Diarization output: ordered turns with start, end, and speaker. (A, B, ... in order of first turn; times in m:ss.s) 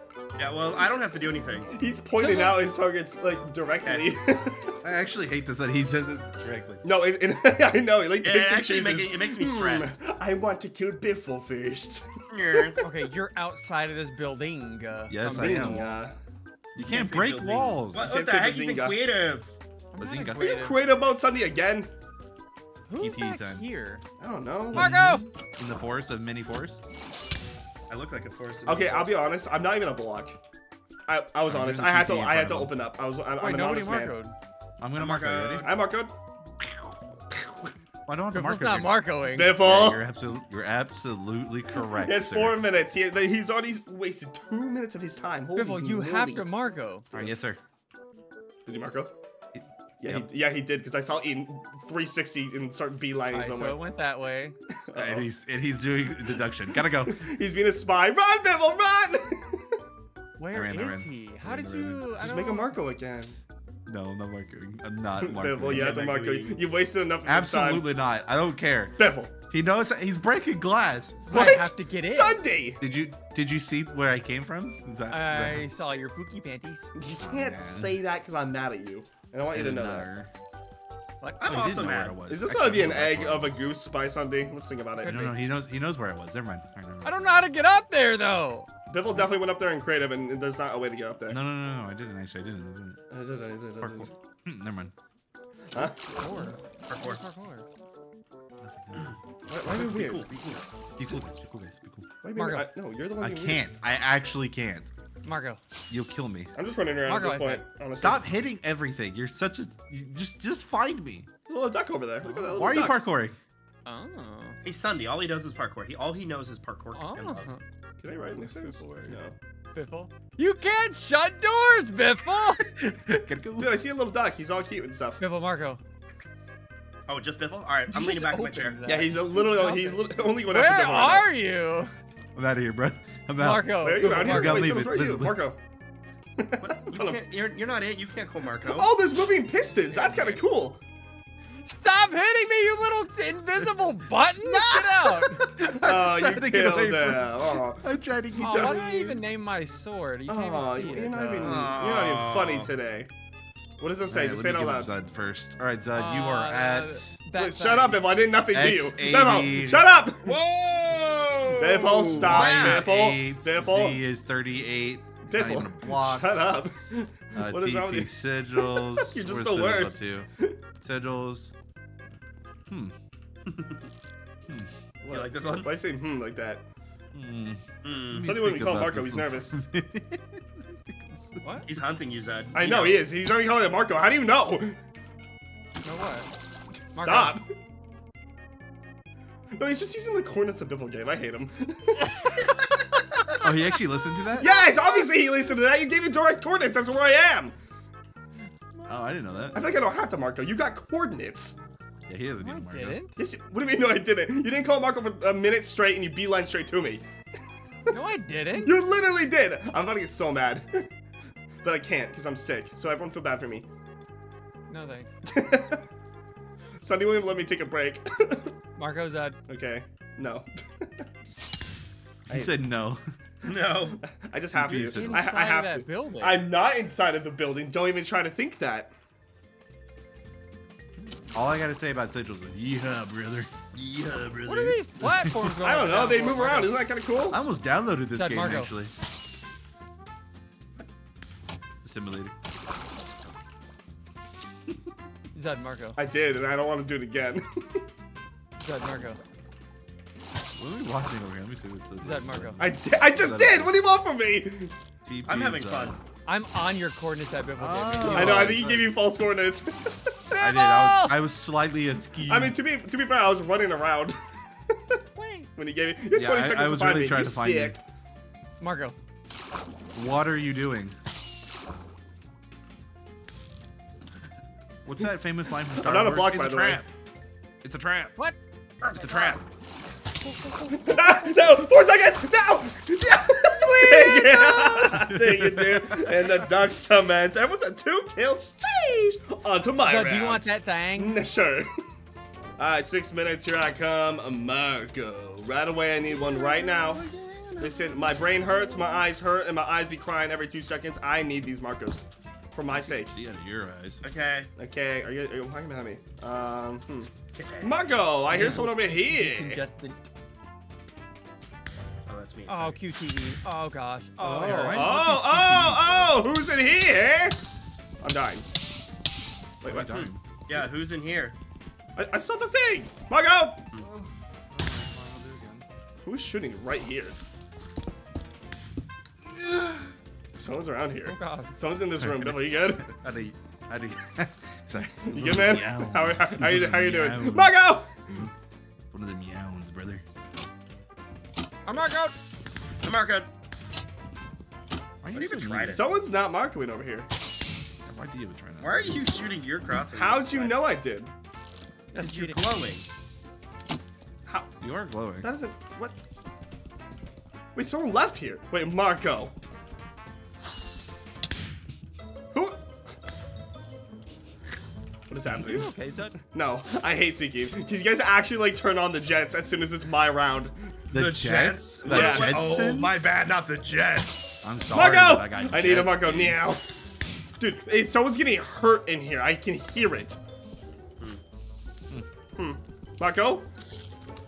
0:00.4-0:01.7 A
0:01.7-0:04.7 B
0:02.2-0:02.6 C
0:03.8-0:04.1 A
0:04.8-0:06.8 D
0:06.8-0:12.8 B
0:08.2-0:09.9 A
0:12.3-0:12.8 A
0:12.8-0:16.0 C
0:15.1-0:16.0 D
0:15.4-0:16.1 B
0:16.8-0:18.2 D
0:16.8-0:19.5 A
0:18.0-0:19.0 B
0:19.9-0:20.8 C
0:20.0-0:20.4 D
0:20.4-0:21.9 B
0:22.9-0:24.0 C
0:23.0-0:23.6 D
0:24.2-0:25.2 B
0:24.7-0:25.3 C
0:24.7-0:26.8 D
0:27.9-0:29.2 A
0:28.6-0:30.4 B
0:31.1-0:34.2 B
0:31.4-0:32.7 D
0:33.4-0:34.3 C
0:34.8-0:35.7 D
0:35.0-0:35.7 A
0:35.6-0:36.1 B
0:38.0-0:42.6 D
0:38.3-0:39.6 C
0:39.3-0:40.0 B
0:41.9-0:46.4 B
0:45.6-0:47.0 C
0:47.1-0:47.6 D
0:48.6-0:49.1 B
0:49.5-0:50.2 D
0:50.0-0:53.8 B
0:53.3-0:54.5 C
0:54.9-0:55.3 B
0:54.9-0:57.3 D
0:56.8-0:59.6 B
1:00.4-1:02.8 C
1:00.5-1:02.1 D
1:02.2-1:03.4 B
1:03.9-1:06.5 D
1:05.2-1:07.9 B
1:05.8-1:06.1 A
1:07.2-1:11.3 D
1:09.0-1:09.3 B
1:11.3-1:12.4 C
1:11.3-1:12.8 B
1:12.8-1:15.6 D
1:15.1-1:16.9 C
1:17.0-1:20.1 B
1:17.2-1:18.0 D
1:19.5-1:20.3 D
1:21.2-1:21.7 C
1:21.4-1:22.2 A
1:21.4-1:23.6 D
1:22.3-1:25.3 B
1:25.0-1:25.4 C
1:25.0-1:27.3 D
1:27.0-1:28.7 C
1:28.9-1:31.4 B
1:31.3-1:33.0 D
1:33.1-1:34.1 B
1:33.8-1:34.9 D
1:35.7-1:36.1 B
1:36.2-1:37.6 C
1:36.9-1:37.2 A
1:38.6-1:39.2 D
1:39.5-1:40.3 B
1:39.6-1:40.7 A
1:41.0-1:42.1 D
1:42.2-1:43.6 B
1:42.3-1:42.7 C
1:43.2-1:44.9 D
1:45.2-1:45.6 C
1:45.9-1:46.5 D
1:46.5-1:48.2 B
1:47.0-1:47.6 C
1:48.0-1:51.3 D
1:51.5-1:53.0 B
1:52.2-1:52.8 C
1:52.5-1:53.3 D
1:53.8-1:54.6 C
1:54.6-1:57.5 A
1:56.9-1:57.6 C
1:58.0-1:59.4 B
1:58.3-1:59.2 C
1:59.7-2:02.6 C
2:02.6-2:03.8 D
2:03.6-2:05.2 B
2:05.2-2:05.8 C
2:07.1-2:08.9 A
2:07.9-2:11.9 C
2:08.8-2:11.3 B
2:12.3-2:15.4 D
2:13.4-2:14.7 C
2:13.8-2:15.6 B
2:16.4-2:17.2 B
2:16.6-2:18.9 A
2:18.6-2:20.8 B
2:19.9-2:20.4 A
2:21.6-2:25.4 C
2:24.4-2:29.2 D
2:25.6-2:27.9 B
2:28.4-2:28.8 B
2:28.4-2:31.7 C
2:30.3-2:33.1 B
2:31.4-2:32.7 A
2:33.8-2:34.9 B
2:34.1-2:37.2 D
2:35.9-2:38.0 C
2:37.3-2:40.4 B
2:38.5-2:39.9 D
2:40.2-2:42.9 A
2:41.6-2:44.0 B
2:42.1-2:46.3 D
2:45.3-2:50.6 B
2:47.3-2:50.3 D
2:50.8-2:51.5 D
2:52.7-2:52.9 D
2:53.5-2:53.8 A
2:55.0-2:56.6 B
2:55.1-2:55.7 A
2:57.1-3:01.4 D
2:57.8-2:58.3 A
2:58.1-2:59.5 B
3:01.4-3:01.7 C
3:01.6-3:03.0 A
3:02.5-3:04.8 B
3:05.8-3:06.3 C
3:06.9-3:07.4 B
3:06.9-3:07.4 C
3:09.6-3:12.6 B
3:13.4-3:14.5 D
3:14.4-3:17.5 B
3:14.4-3:14.7 C
3:18.8-3:19.7 D
3:19.5-3:21.6 B
3:22.1-3:23.0 D
3:22.4-3:23.1 C
3:23.2-3:27.0 B
3:27.9-3:28.7 C
3:28.6-3:30.9 B
3:31.6-3:33.6 B
3:34.7-3:35.1 C
3:35.2-3:35.8 B
3:36.8-3:38.5 B
3:38.8-3:39.4 C
3:39.5-3:41.0 B
3:42.3-3:42.6 B
3:42.3-3:43.0 D
3:43.4-3:44.0 A
3:44.0-3:48.9 B
3:44.5-3:45.3 D
3:44.7-3:46.4 C
3:51.3-3:53.5 D
3:53.7-3:54.8 A
3:54.4-3:56.8 C
3:55.0-3:55.6 D
3:55.6-3:57.4 B
3:57.3-3:58.9 D
3:58.1-3:58.7 C
4:01.8-4:02.3 D
4:05.3-4:06.0 C
4:06.0-4:07.8 B
4:08.6-4:09.2 C
4:10.6-4:13.7 D
4:12.0-4:12.6 C
4:12.6-4:14.7 B
4:15.0-4:16.0 D
4:15.2-4:16.0 A
4:16.2-4:18.6 C
4:17.6-4:18.9 D
4:18.1-4:19.9 B
4:20.3-4:21.2 C
4:20.4-4:22.6 D
4:22.3-4:24.2 B
4:25.2-4:25.5 C
4:25.5-4:27.8 B
4:26.1-4:27.8 D
4:28.6-4:29.0 C
4:29.9-4:31.0 D
4:34.8-4:36.9 D
4:35.7-4:36.8 B
4:37.6-4:38.2 D
4:38.8-4:39.4 D
4:40.7-4:51.7 B
4:43.4-4:44.8 C
4:44.8-4:46.1 D
4:49.8-4:51.2 C
4:52.6-4:57.0 B
4:56.0-4:59.0 A
4:57.6-5:03.1 B
5:02.7-5:04.0 D
5:04.0-5:04.5 A
5:04.6-5:07.1 B
5:07.4-5:07.9 A
5:07.6-5:09.6 B
5:08.3-5:09.9 C
5:12.1-5:12.8 A
5:12.5-5:15.0 C
5:14.2-5:17.4 B
5:14.4-5:16.2 D
5:18.0-5:18.4 B
5:19.6-5:20.1 B
5:19.6-5:20.2 D
5:20.5-5:21.3 A
5:22.0-5:23.6 B
5:23.8-5:25.6 D
5:26.0-5:27.1 B
5:30.4-5:32.9 B
5:31.0-5:31.5 C
5:32.0-5:37.6 D
5:35.0-5:38.2 B
5:38.9-5:40.0 D
5:41.6-5:42.1 C
5:42.8-5:43.3 A
5:45.0-5:45.8 D
5:45.1-5:45.8 A
5:45.6-5:47.1 B
5:47.8-5:49.3 D
5:48.6-5:50.6 A
5:49.9-5:51.1 B
5:51.9-5:52.4 C
5:52.0-5:52.8 A
5:54.6-5:55.3 D
5:55.2-5:56.0 B
5:57.5-5:59.3 B
6:02.3-6:02.6 B
6:05.1-6:05.7 B
6:05.4-6:06.2 C
6:06.2-6:10.8 B
6:10.9-6:13.1 D
6:10.9-6:14.3 A
6:11.8-6:12.4 B
6:14.4-6:16.4 D
6:14.7-6:16.6 B
6:17.4-6:20.2 B
6:22.4-6:23.4 B